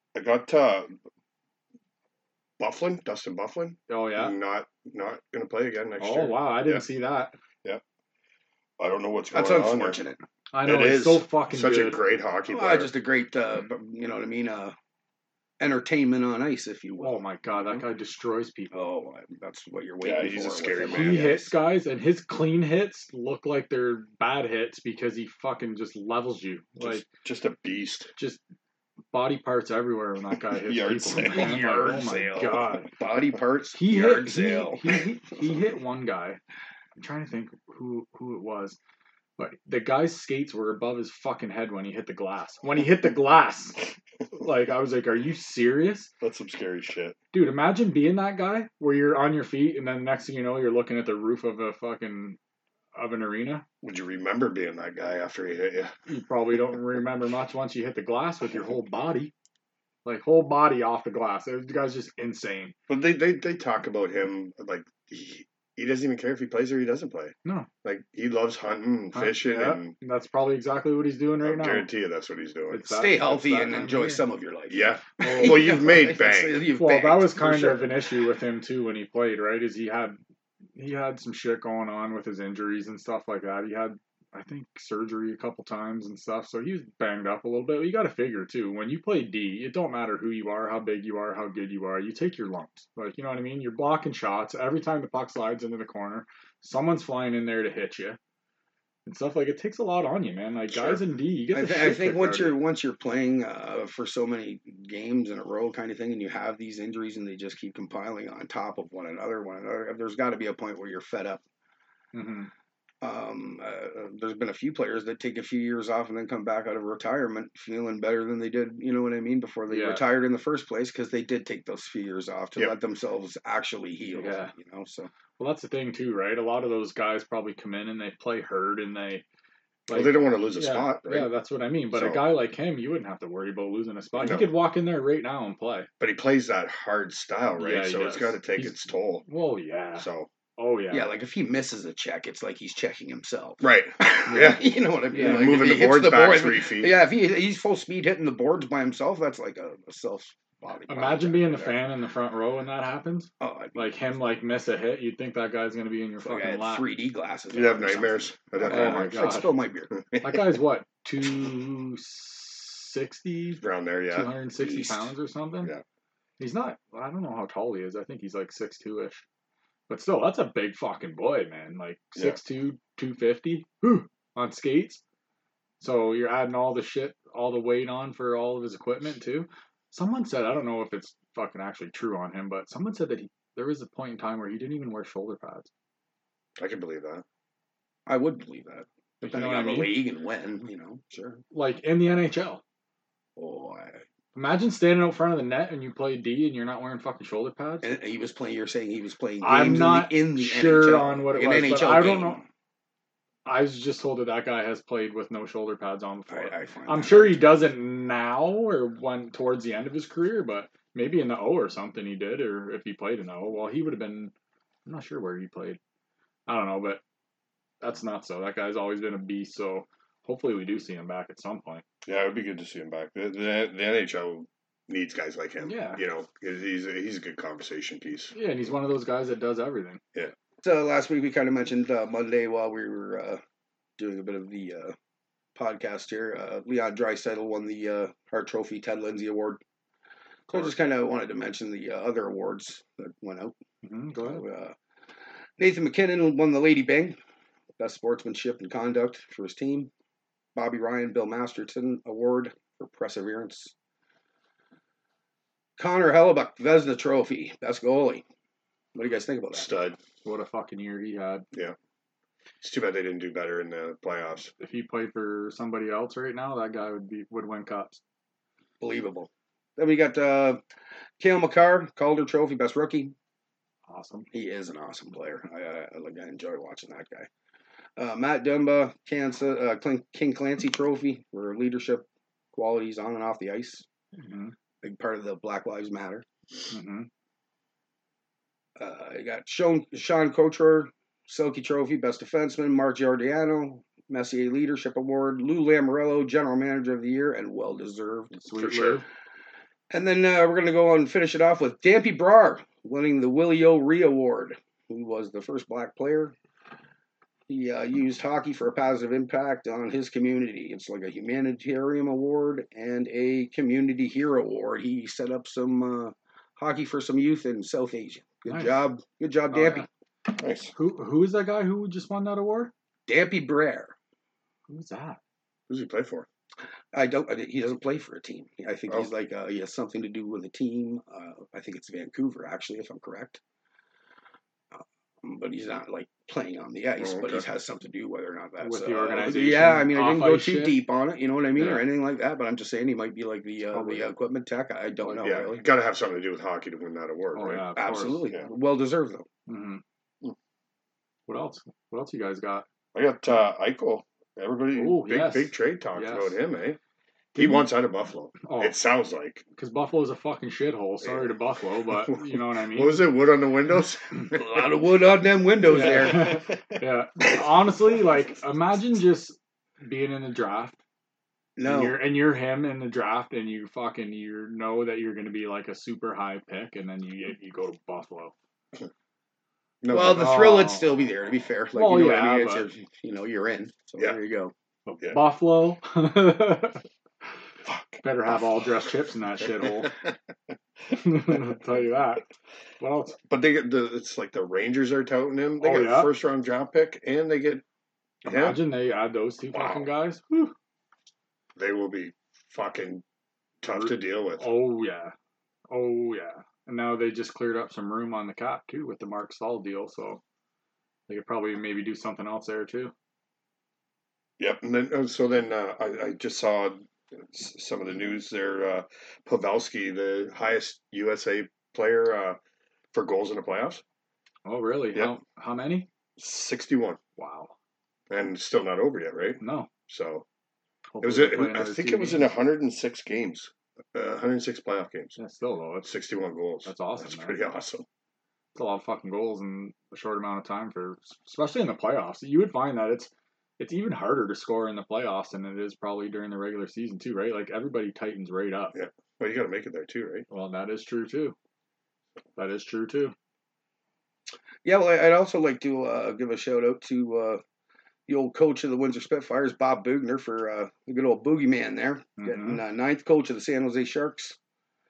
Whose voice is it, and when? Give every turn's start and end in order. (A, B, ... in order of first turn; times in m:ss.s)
0:00.1-0:00.9 A
0:02.6-0:06.8 A
0:03.9-0:04.3 B
0:06.0-0:07.4 B
0:08.8-0:10.0 A
0:09.3-0:10.2 C
0:10.5-0:12.0 B
0:10.6-0:12.9 A
0:12.5-0:14.7 C
0:15.6-0:17.8 C
0:17.0-0:18.8 B
0:18.7-0:21.5 C
0:20.0-0:21.3 A
0:20.9-0:27.0 B
0:26.8-0:28.1 A
0:28.2-0:28.4 B
0:29.1-0:32.9 B
0:30.6-0:31.9 A
0:31.1-0:35.0 C
0:33.7-0:36.4 B
0:37.0-0:38.8 B
0:39.4-0:43.8 B
0:44.4-0:46.1 B
0:46.2-0:47.2 A
0:47.3-0:52.4 B
0:52.9-0:53.6 B
0:53.8-0:55.9 A
0:56.1-0:59.3 B
1:00.0-1:02.7 B
1:02.9-1:09.9 A
1:09.1-1:11.9 B
1:11.4-1:12.9 A
1:12.7-1:14.2 B
1:12.9-1:18.0 C
1:14.7-1:16.6 A
1:15.2-1:15.8 B
1:16.8-1:20.2 B
1:20.7-1:38.2 B
1:39.0-1:42.6 B
1:41.5-1:51.4 C
1:52.1-1:52.5 B
1:53.0-2:05.1 C
1:59.7-2:00.0 B
2:04.1-2:04.5 B
2:05.4-2:09.2 B
2:09.9-2:15.9 B
2:09.9-2:11.3 A
2:11.9-2:12.3 A
2:14.2-2:14.5 A
2:16.0-2:19.3 A
2:17.6-2:18.7 B
2:19.2-2:21.1 B
2:20.0-2:20.3 A
2:20.9-2:31.8 C
2:23.6-2:26.9 A
2:24.3-2:24.6 B
2:25.1-2:25.4 B
2:30.9-2:36.8 B
2:33.4-2:33.9 C
2:36.2-2:39.9 C
2:37.5-2:39.4 A
2:38.6-2:39.5 B
2:40.1-2:40.4 A
2:40.2-2:45.7 B
2:43.6-2:44.3 A
2:44.6-2:45.1 C
2:46.4-2:49.2 B
2:49.9-2:55.0 B
2:55.8-3:05.7 B
3:06.6-3:07.2 A
3:08.1-3:11.4 C
3:09.2-3:10.0 B
3:11.5-3:12.6 B
3:13.4-3:14.0 C
3:14.4-3:17.9 B
3:17.8-3:22.4 C
3:19.4-3:22.4 B
3:23.4-3:34.3 B
3:26.3-3:27.5 C
3:34.8-3:35.8 B
3:36.5-3:37.0 B
3:37.8-3:41.8 B
3:42.0-3:48.3 A
3:45.6-3:46.0 B
3:48.3-3:50.0 B
3:50.6-3:53.4 C
3:54.0-3:55.0 C
3:55.6-3:59.6 C
4:00.5-4:03.6 C
4:03.8-4:04.4 B
4:04.3-4:04.7 C
4:05.6-4:07.2 C
4:07.8-4:09.9 C
4:10.6-4:13.7 C
4:15.8-4:18.2 C
4:18.9-4:19.7 C
4:19.5-4:20.0 A
4:20.2-4:21.4 B
4:22.6-4:24.5 A
4:24.6-4:28.0 B
4:28.8-4:30.6 C
4:31.2-4:33.1 C
4:33.9-4:34.3 B
4:34.3-4:37.3 C
4:38.0-4:43.8 C
4:44.2-4:44.5 B
4:44.8-4:46.2 C
4:46.7-4:47.1 B
4:48.8-4:58.3 C
4:58.4-4:59.0 B
4:58.6-4:59.0 A
4:59.9-5:06.3 C
5:07.5-5:19.9 C
5:18.5-5:18.8 B
5:19.5-5:19.9 B
5:20.4-5:20.7 A
5:20.7-5:22.7 B
5:23.1-5:23.9 C
5:24.7-5:25.2 B
5:25.7-5:26.3 A
5:26.9-5:33.4 C
5:34.7-5:45.6 C
5:37.0-5:37.4 A
5:38.6-5:40.8 B
5:41.6-5:41.8 B
5:43.7-5:44.0 B
5:45.1-5:47.7 A
5:47.3-5:48.3 B
5:47.8-5:49.3 C
5:49.5-5:49.8 B
5:51.3-5:52.7 B
5:52.9-5:56.8 A
5:54.7-5:56.4 B
5:57.4-5:57.7 B
5:57.4-5:59.4 A
5:58.4-5:58.7 B
5:59.6-6:03.0 B
6:02.1-6:04.4 A
6:04.3-6:06.4 C
6:05.7-6:10.8 B
6:05.8-6:06.6 A
6:11.6-6:12.0 C
6:11.6-6:18.3 B
6:19.8-6:20.4 A
6:19.9-6:24.5 C
6:20.1-6:20.9 B
6:21.7-6:22.7 B
6:24.9-6:25.2 A
6:25.1-6:26.8 B
6:27.7-6:28.4 A
6:28.0-6:29.9 B
6:29.6-6:30.1 A
6:30.9-6:32.2 B
6:32.8-6:33.2 B
6:33.3-6:37.6 A
6:35.6-6:36.1 B
6:38.2-6:38.6 A
6:38.2-6:40.5 B
6:39.5-6:39.9 A
6:41.6-6:43.0 A
6:43.6-6:44.4 A
6:43.7-6:45.1 B
6:45.7-6:50.2 B
6:51.1-6:52.9 B
6:54.4-7:02.4 A
7:02.9-7:03.8 A
7:04.4-7:05.9 B
7:06.2-7:07.0 A
7:07.2-7:07.5 B
7:08.1-7:10.2 A
7:09.4-7:09.7 B
7:10.9-7:12.3 B
7:11.0-7:15.2 A
7:15.2-7:15.9 B
7:15.8-7:17.8 A
7:16.6-7:17.4 B
7:18.6-7:28.7 B
7:28.7-7:30.3 A
7:30.3-7:31.4 B
7:32.4-7:33.1 B
7:34.6-7:37.4 C
7:38.1-7:44.4 C
7:42.2-7:42.6 B